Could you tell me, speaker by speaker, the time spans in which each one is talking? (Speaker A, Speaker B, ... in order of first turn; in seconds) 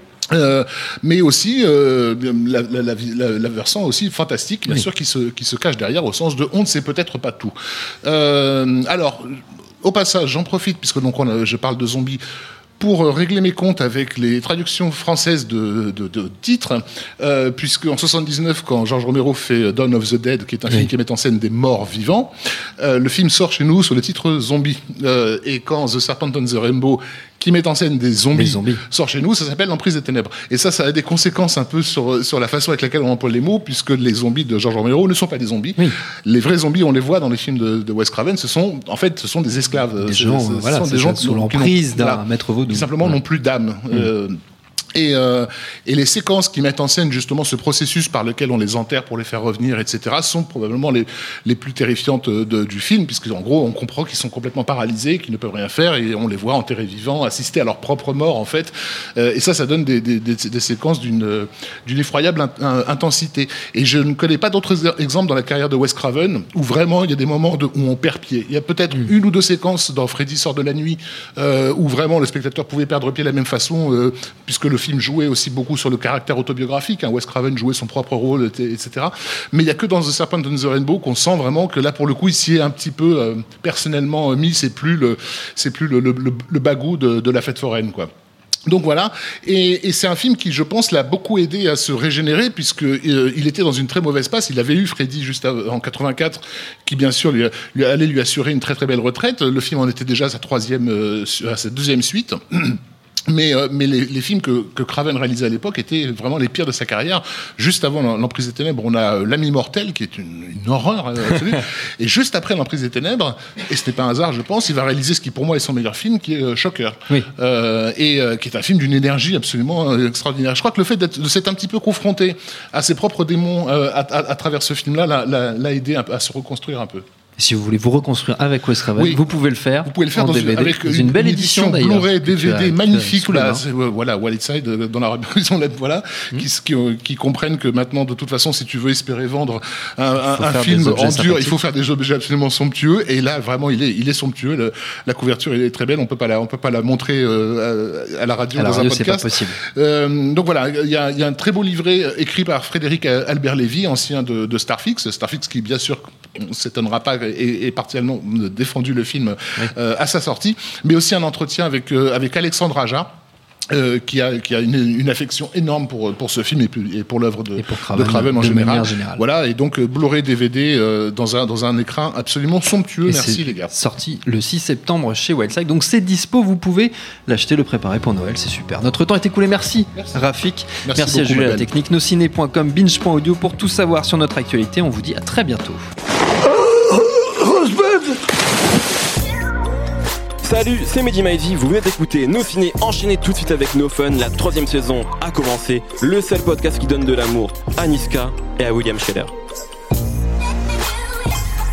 Speaker A: 0.3-12.2, 12.8-44.4, 45.0-88.1, 88.7-127.0, 129.0-129.2, 129.8-163.1, 163.7-173.7, 179.9-180.3, 180.8-181.7
Speaker B: 28.3-28.8, 40.0-43.2, 127.4-133.6, 140.2-141.6, 148.5-149.6, 167.6-169.2, 173.1-185.9
Speaker C: 190.4-199.3